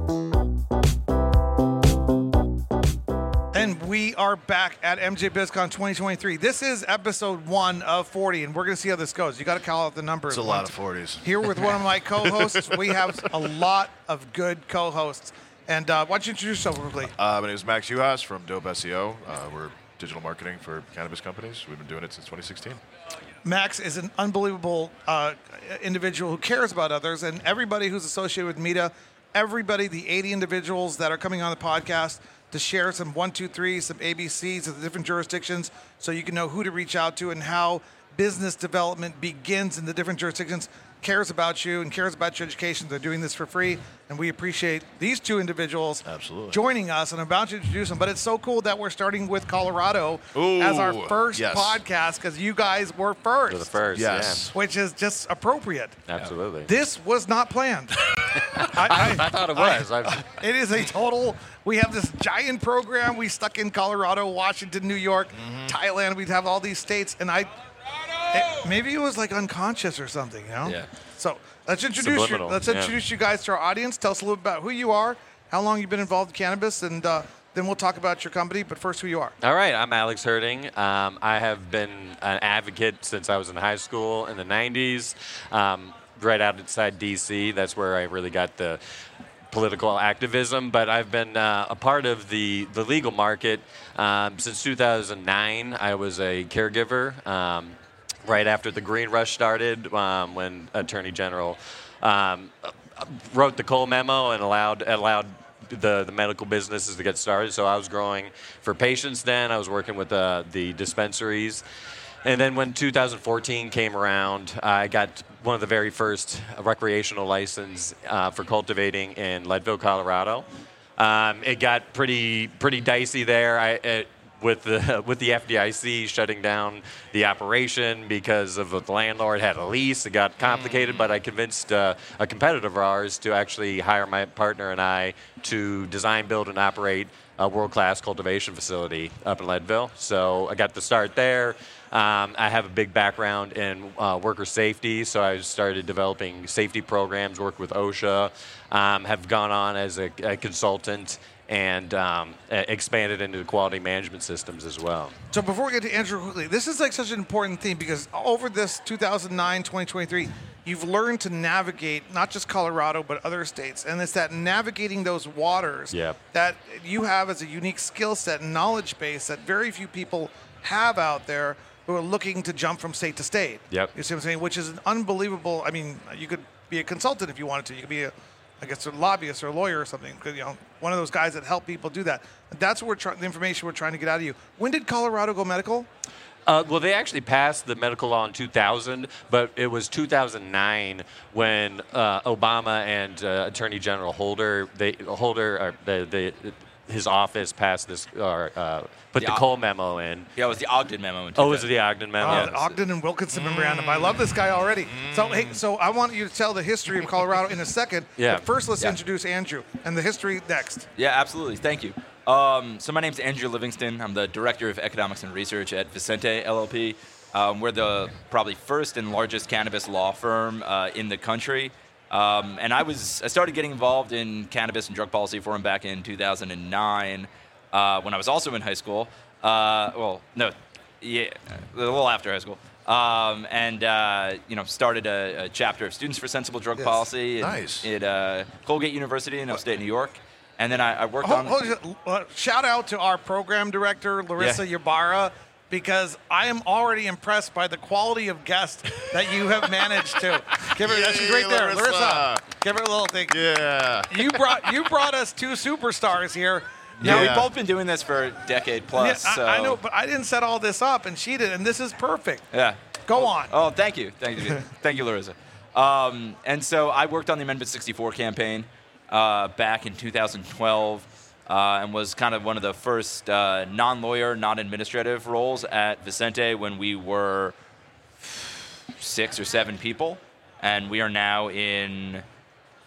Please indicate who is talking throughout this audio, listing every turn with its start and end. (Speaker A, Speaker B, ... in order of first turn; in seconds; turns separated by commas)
Speaker A: 3.5-17.1, Speaker B: 10.3-13.6, Speaker B: 17.1-22.8, Speaker A: 23.4-53.8, Speaker B: 46.0-46.6, Speaker B: 50.3-51.8, Speaker C: 53.5-54.5, Speaker B: 53.9-54.5, Speaker A: 54.5-56.0, Speaker C: 56.1-56.7, Speaker A: 56.7-58.0, Speaker C: 58.2-60.2, Speaker A: 58.6-67.5, Speaker A: 68.3-79.3, Speaker C: 72.0-73.0, Speaker C: 79.4-88.8, Speaker C: 89.5-111.6, Speaker C: 112.2-120.5, Speaker C: 121.0-155.1, Speaker A: 155.3-185.9, Speaker C: 165.9-166.2, Speaker C: 186.5-200.3, Speaker D: 199.2-199.4, Speaker D: 200.4-201.7, Speaker C: 201.4-202.8, Speaker A: 202.2-210.9, Speaker D: 202.2-202.5, Speaker B: 203.6-204.2, Speaker B: 205.0-205.6, Speaker C: 208.2-208.5, Speaker D: 211.0-241.7, Speaker B: 237.4-237.9, Speaker A: 241.2-253.5, Speaker B: 250.7-252.4, Speaker B: 253.3-254.7, Speaker A: 254.1-257.4, Speaker D: 257.0-259.8, Speaker B: 257.0-257.5, Speaker A: 259.0-262.5, Speaker D: 262.5-277.6, Speaker A: 263.1-263.6, Speaker D: 278.2-282.2